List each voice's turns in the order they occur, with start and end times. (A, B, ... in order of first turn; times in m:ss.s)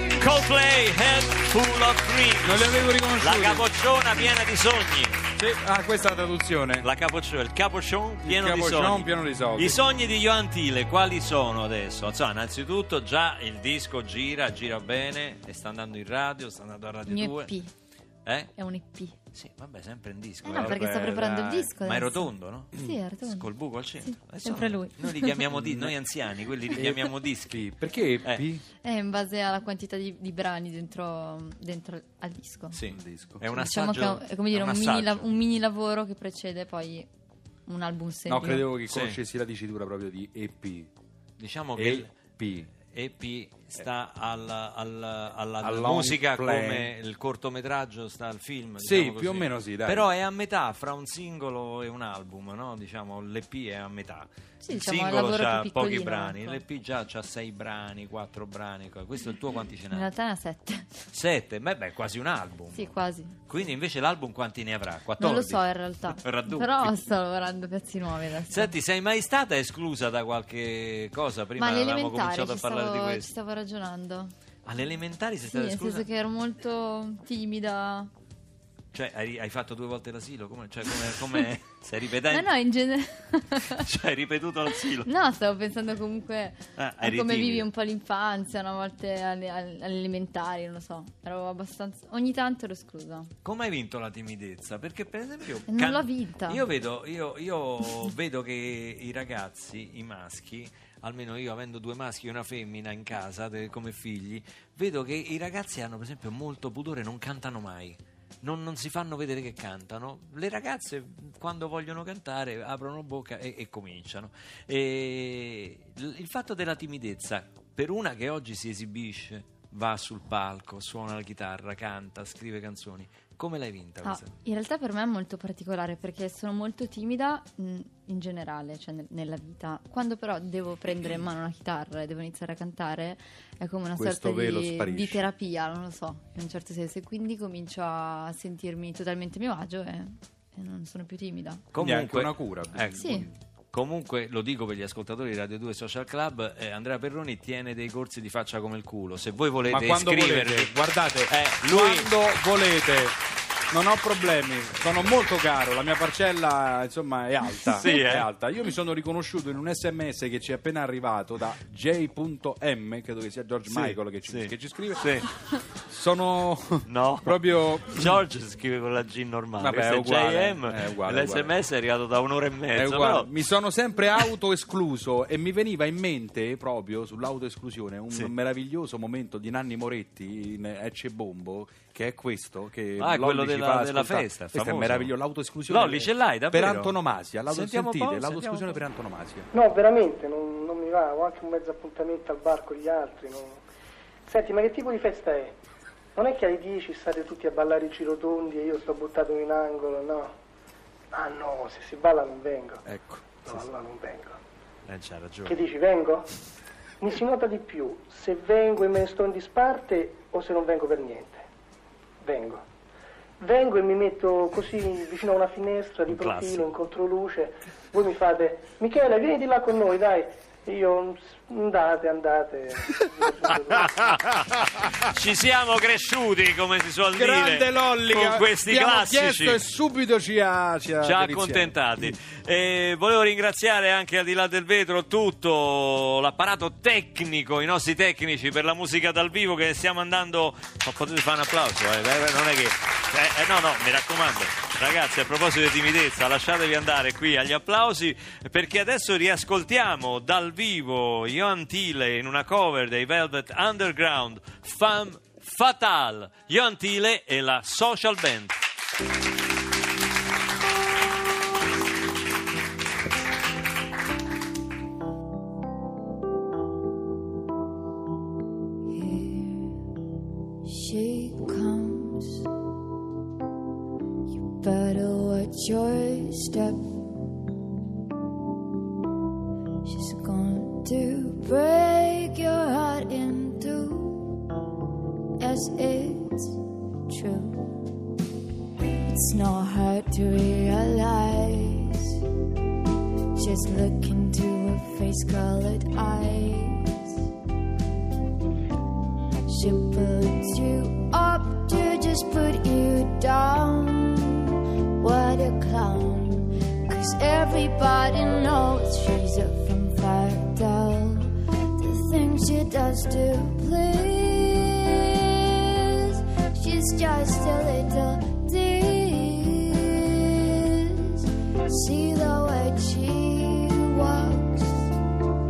0:00.2-0:05.2 A
0:02.4-0:03.6 B
0:05.4-0:06.9 B
0:06.8-0:17.5 A
0:08.2-0:09.8 B
0:17.1-0:17.7 C
0:18.2-0:18.5 A
0:18.6-0:19.1 C
0:19.3-0:27.7 A
0:20.4-0:23.5 C
0:20.4-0:21.3 B
0:24.0-0:25.4 C
0:25.5-0:26.0 B
0:26.7-0:28.6 B
0:28.8-0:32.8 C
0:32.8-0:33.4 B
0:32.8-0:35.3 A
0:33.5-0:37.1 C
0:37.7-0:38.7 C
0:38.3-0:40.9 B
0:38.9-0:39.2 A
0:41.4-0:42.2 A
0:41.8-0:42.7 B
0:42.9-1:00.1 A
0:45.6-0:46.9 B
0:48.8-0:50.1 B
0:54.6-0:56.6 C
0:59.9-1:00.9 C
1:01.1-1:05.6 A
1:02.7-1:03.4 C
1:05.2-1:08.7 C
1:06.2-1:07.0 A
1:08.5-1:13.3 A
1:11.6-1:14.3 C
1:14.6-1:16.1 A
1:15.5-1:18.1 C
1:18.9-1:22.5 A
1:22.3-1:23.8 C
1:23.7-1:25.1 A
1:25.0-1:33.3 C
1:26.8-1:27.7 A
1:33.4-2:04.3 A
1:35.7-1:36.6 C
2:04.0-2:21.6 C
2:13.9-2:15.2 B
2:21.7-2:30.7 A
2:21.8-2:23.3 B
2:23.0-2:23.3 C
2:29.7-2:33.2 B
2:31.3-2:32.1 A
2:33.7-2:45.2 B
2:37.7-2:38.3 A
2:43.7-2:45.3 A
2:45.9-2:48.2 B
2:46.9-2:53.3 A
2:49.6-2:51.5 B
2:52.7-3:09.5 B
3:03.0-3:05.1 A
3:05.7-3:06.9 A
3:07.5-3:08.8 A
3:09.5-3:13.6 D
3:14.2-3:15.5 D
3:16.1-3:20.3 D
3:21.1-3:22.8 D
3:22.8-3:23.6 B
3:23.4-3:24.4 D
3:24.9-3:25.6 A
3:25.4-3:26.3 D
3:27.0-3:31.4 D
3:32.2-3:32.6 D
3:33.4-3:44.1 D
3:36.1-3:36.6 A
3:43.9-3:44.2 A
3:44.0-3:45.1 B
3:45.0-3:49.6 A
3:47.1-3:52.1 B
3:51.0-4:18.5 A
4:28.9-4:29.8 E
4:30.6-4:32.5 E
4:34.3-4:36.9 E
4:39.8-4:44.3 E
4:45.4-4:47.8 E
4:49.0-4:52.2 E
4:53.3-4:57.1 E
4:59.5-5:24.9 E